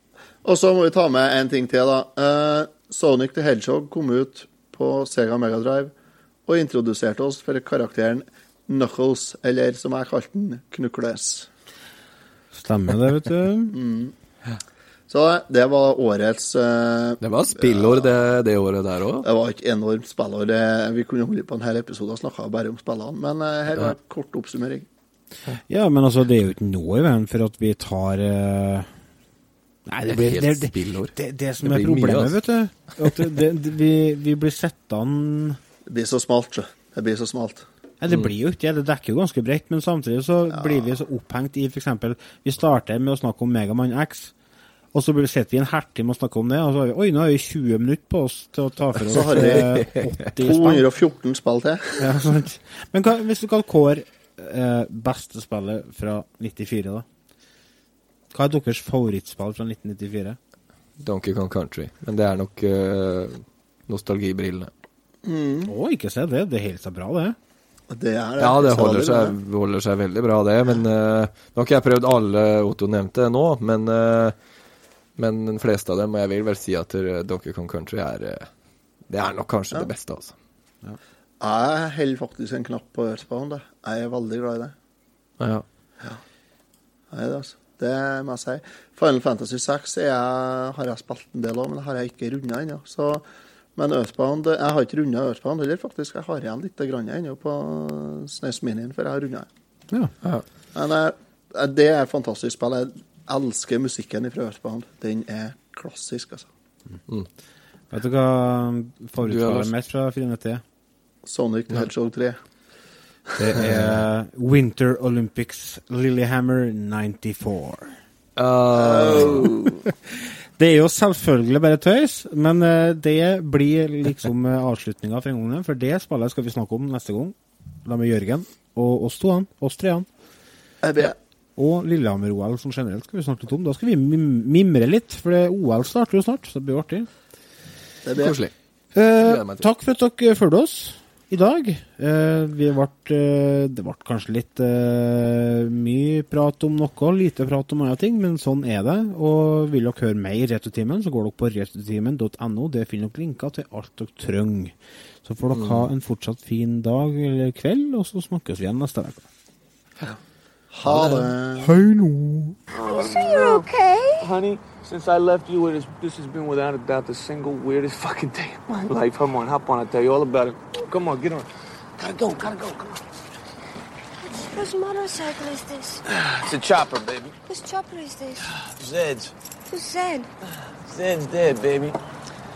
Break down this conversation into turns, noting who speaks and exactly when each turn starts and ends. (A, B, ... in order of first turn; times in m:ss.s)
0:00.4-0:05.9 A
0:06.5-0:11.5 A
0:12.5-0:13.7 B
0:13.7-0:14.1 A
0:15.1-0:18.1 A
0:17.2-0:19.3 C
0:19.2-0:24.8 A
0:25.7-0:28.9 B
0:29.9-0:35.6 B
0:30.1-0:32.4 C
0:35.9-0:37.6 A
0:38.0-0:44.3 B
0:44.9-0:50.8 B
0:49.1-0:49.8 A
0:49.1-0:50.0 C
0:50.4-0:52.2 A
0:52.0-0:57.0 B
0:58.3-1:00.4 B
1:01.0-1:04.7 C
1:05.2-1:05.7 A
1:05.6-1:07.4 B
1:07.9-1:09.3 A
1:08.4-1:14.3 C
1:15.2-1:18.5 C
1:19.1-1:20.3 C
1:21.4-1:24.7 A
1:25.4-1:25.6 C
1:27.1-1:33.2 A
1:33.8-1:39.5 A
1:40.7-1:46.5 A
1:47.9-1:50.6 B
1:49.2-1:49.7 C
1:51.2-1:52.4 A
1:53.4-1:58.0 B
1:53.6-1:54.0 C
1:58.4-1:59.5 C
1:58.7-1:59.8 A
1:59.8-2:10.1 B
2:10.8-2:11.1 A
2:11.6-2:17.1 B
2:18.0-2:18.3 A
2:18.2-2:18.5 C
2:18.9-2:39.2 B
2:19.2-2:19.7 C
2:35.5-2:35.9 C
2:40.7-2:41.7 A
2:40.9-2:41.2 C
2:41.6-2:42.6 B
2:42.9-2:44.3 D
2:43.0-2:43.6 E
2:44.2-2:51.4 E
2:52.0-2:52.7 E
2:54.3-2:56.0 D
2:56.4-2:57.3 E
2:57.5-2:58.5 D
2:58.8-2:59.3 E
2:59.7-3:00.3 D
3:00.9-3:01.9 E